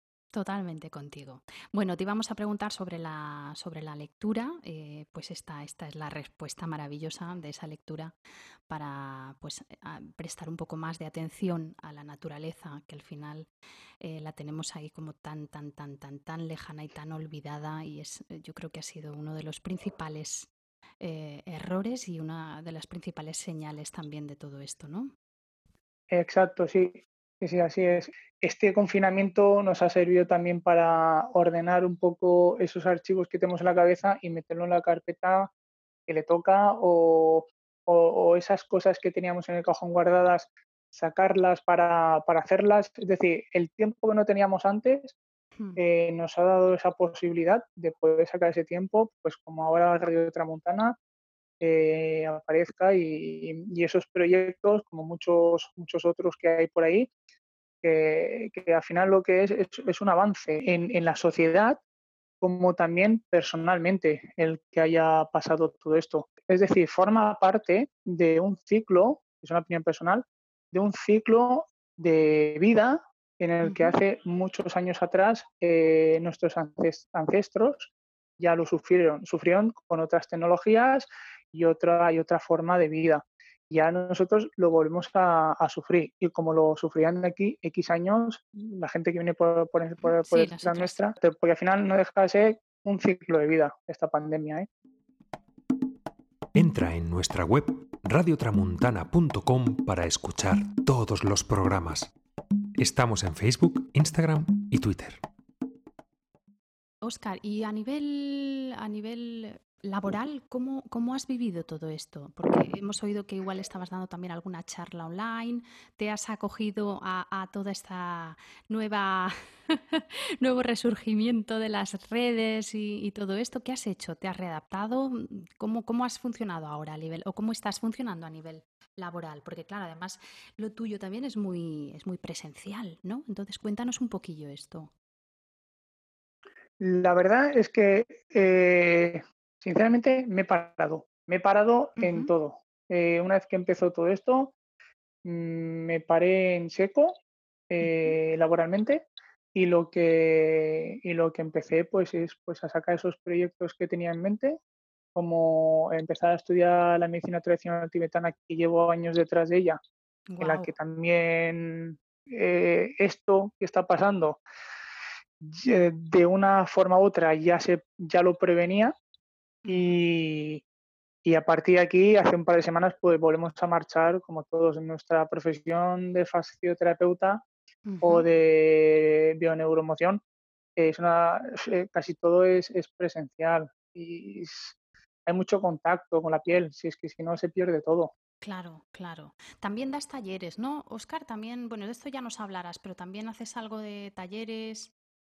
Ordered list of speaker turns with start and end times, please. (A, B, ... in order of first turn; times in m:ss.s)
0:00.3-0:08.1 A
0:08.7-0:13.5 A
0:14.0-0:25.1 A
0:26.1-0:35.5 B
0:36.1-0:45.2 B
0:45.8-0:51.0 B
0:51.6-0:57.1 B
0:57.8-1:01.8 B
1:02.4-1:34.7 B
1:13.6-1:13.9 A
1:30.0-1:31.0 A
1:36.5-1:42.1 C
1:42.8-1:45.2 C
1:47.0-2:14.9 A
2:16.8-2:24.5 B
2:22.0-2:22.3 A
2:25.2-2:27.2 B
2:27.7-2:34.6 B
2:27.8-2:28.2 A
2:35.1-2:39.8 B
2:40.3-2:40.7 A
2:40.4-2:44.4 B
2:45.4-2:48.9 B
2:49.6-2:50.0 A
2:49.7-2:50.6 B
2:51.2-2:57.4 B
2:57.8-2:58.3 A
2:58.0-3:00.2 B
3:00.8-3:08.1 B
3:08.4-3:14.9 A